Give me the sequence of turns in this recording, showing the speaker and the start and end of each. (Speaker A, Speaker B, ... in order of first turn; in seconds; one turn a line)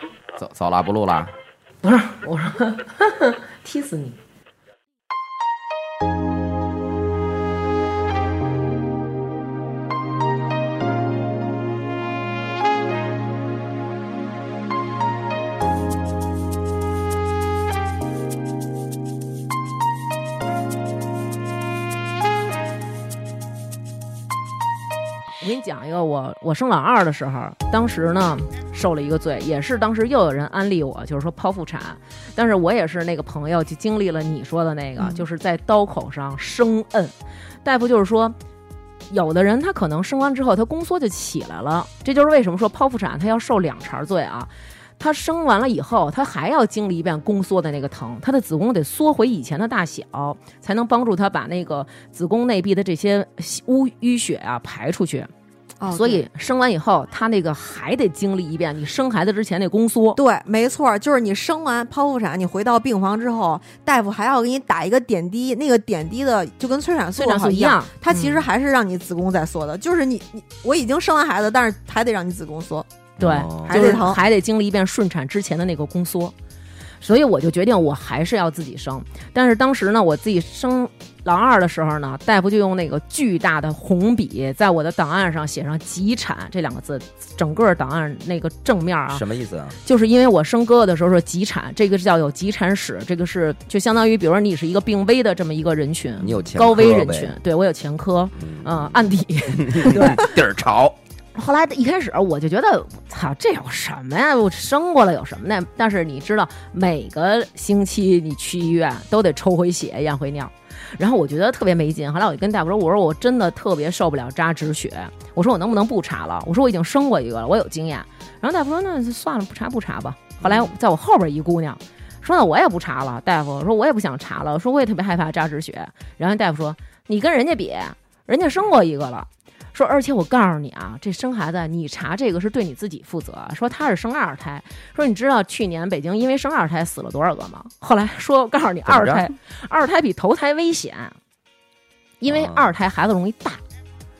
Speaker A: 0.3-1.3
Speaker B: 1.8-4.2
Speaker B: 25.4-37.1
Speaker C: 35.0-35.2
Speaker B: 37.6-38.4
Speaker B: 39.1-55.3
Speaker C: 55.8-56.2
Speaker B: 55.9-60.2
Speaker C: 60.1-72.9
Speaker B: 67.2-68.4
Speaker A: 73.2-73.8
Speaker B: 73.2-76.3
Speaker C: 73.7-74.2
Speaker B: 77.0-89.2
Speaker A: 89.1-89.8
Speaker B: 89.8-100.3
Speaker A: 96.2-97.3
Speaker A: 98.4-101.0
Speaker B: 101.3-141.2
Speaker A: 138.9-139.2
Speaker B: 142.2-143.6
Speaker A: 142.3-142.7